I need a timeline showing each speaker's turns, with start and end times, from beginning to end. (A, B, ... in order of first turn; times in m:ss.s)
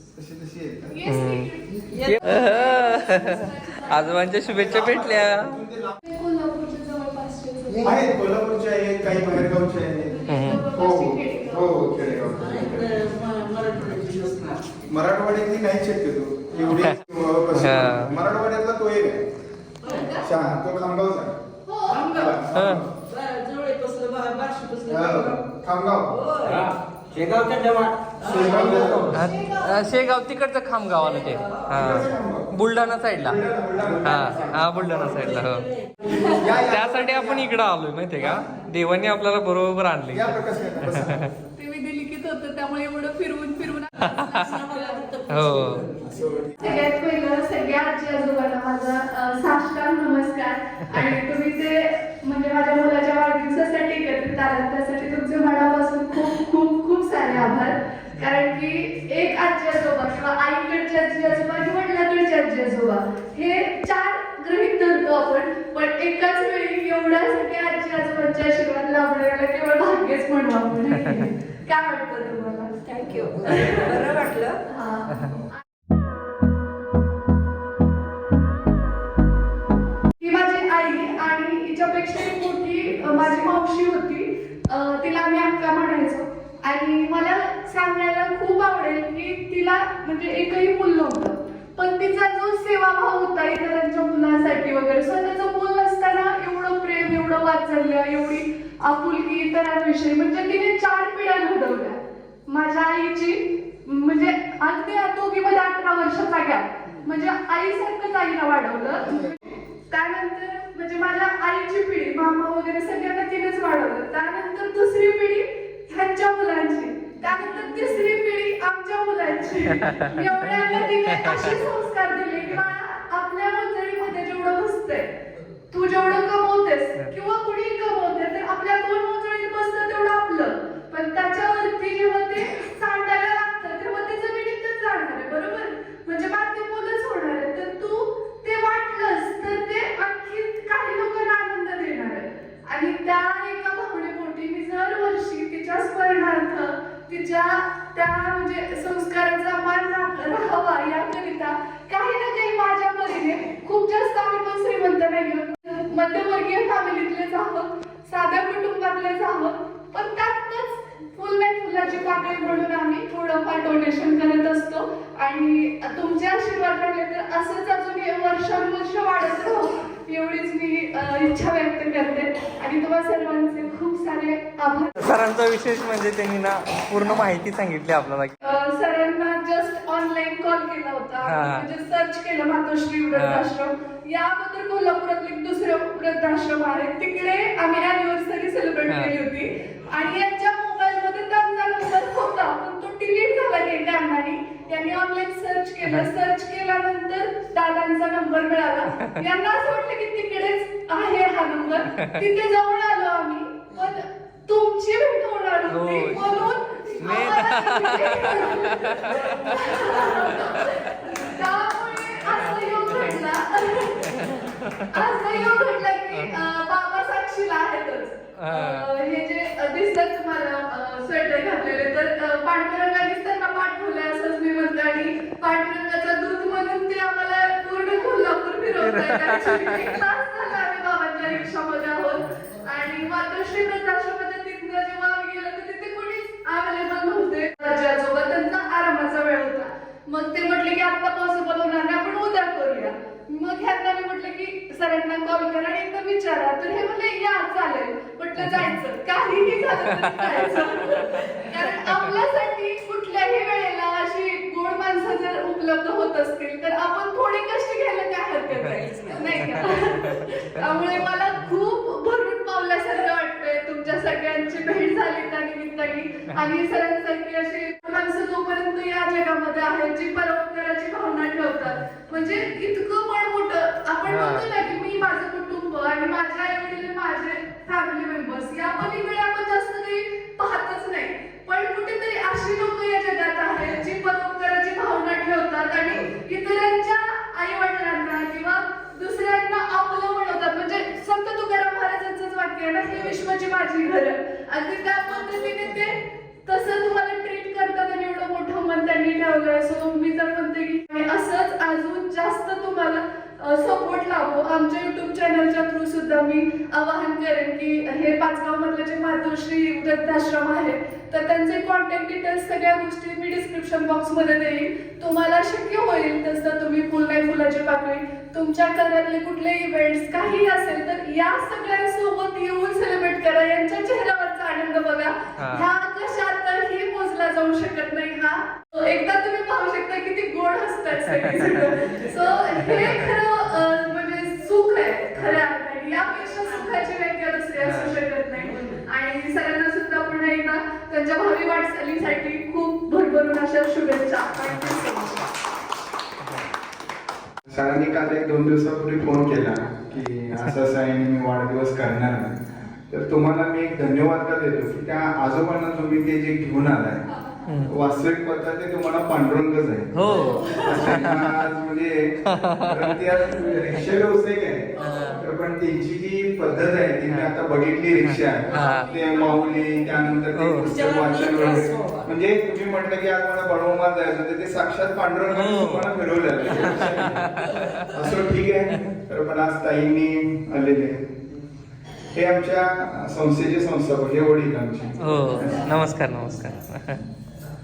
0:00.1-0:01.0 A
0:00.9-0:04.4 B
0:01.1-0:01.5 C
0:02.0-0:05.6 C
0:04.5-0:06.0 A
0:06.0-0:08.1 B
0:07.8-0:13.0 A
0:10.1-0:11.7 B
0:10.3-0:10.6 C
0:12.4-0:14.6 D
0:14.9-0:19.3 A
0:17.5-0:18.2 C
0:19.8-0:20.2 D
0:19.9-0:20.2 B
0:20.2-0:21.4 A
0:21.6-0:22.3 B
0:21.9-0:22.4 D
0:22.1-0:22.9 A
0:22.5-0:22.9 C
0:23.0-0:25.4 D
0:24.9-0:26.2 A
0:26.1-0:26.6 D
0:26.4-0:29.1 E
0:28.2-0:29.0 D
0:28.2-0:29.2 A
0:29.1-0:33.4 C
0:29.2-0:30.1 B
0:31.7-0:32.5 A
0:33.2-0:35.5 A
0:34.0-0:35.7 C
0:35.0-0:35.9 D
0:36.1-0:36.4 B
0:36.2-0:37.6 A
0:36.4-0:41.3 C
0:40.1-0:41.3 A
0:41.6-0:45.1 B
0:44.0-0:44.5 C
0:44.3-0:46.1 D
0:45.3-0:45.9 C
0:46.0-0:46.8 A
0:46.6-1:12.9 B
1:12.9-1:14.6 D
1:13.4-1:14.0 B
1:14.7-1:15.2 B
1:15.1-1:15.4 C
1:20.2-2:05.1 B
1:57.2-1:57.9 D
1:59.7-2:01.6 C
2:05.7-2:55.1 B
2:55.0-2:58.4 C
2:58.4-3:34.3 B
3:01.2-3:01.7 C
3:03.1-3:03.5 C
3:08.9-3:09.1 C
3:21.9-3:22.2 C
3:25.7-3:26.4 C
3:27.0-3:30.8 C
3:34.1-3:35.5 C
3:34.9-5:45.3 B
3:36.1-3:36.5 C
3:38.4-3:38.9 C
3:48.8-3:50.0 C
4:08.4-4:08.7 C
4:10.0-4:10.4 C
4:11.8-4:12.1 C
4:18.7-4:19.6 D
4:19.4-4:20.2 C
4:34.0-4:34.6 C
5:25.4-5:25.6 C
5:31.2-5:31.7 C
5:32.6-5:33.1 C
5:37.6-5:38.0 C
5:44.5-5:44.8 C
5:47.5-5:57.0 A
5:57.2-5:57.4 B
5:57.4-5:57.7 C
5:57.6-6:21.2 A
5:59.9-6:01.4 C
6:00.1-6:01.1 B
6:02.2-6:03.0 C
6:04.8-6:05.2 C
6:04.8-6:05.1 B
6:07.1-6:07.3 C
6:08.0-6:08.9 C
6:08.5-6:10.1 B
6:10.3-6:10.8 C
6:10.6-6:12.1 D
6:11.4-6:11.6 C
6:15.3-6:16.0 C
6:16.5-6:17.9 C
6:22.1-6:25.6 A
6:25.0-6:27.0 C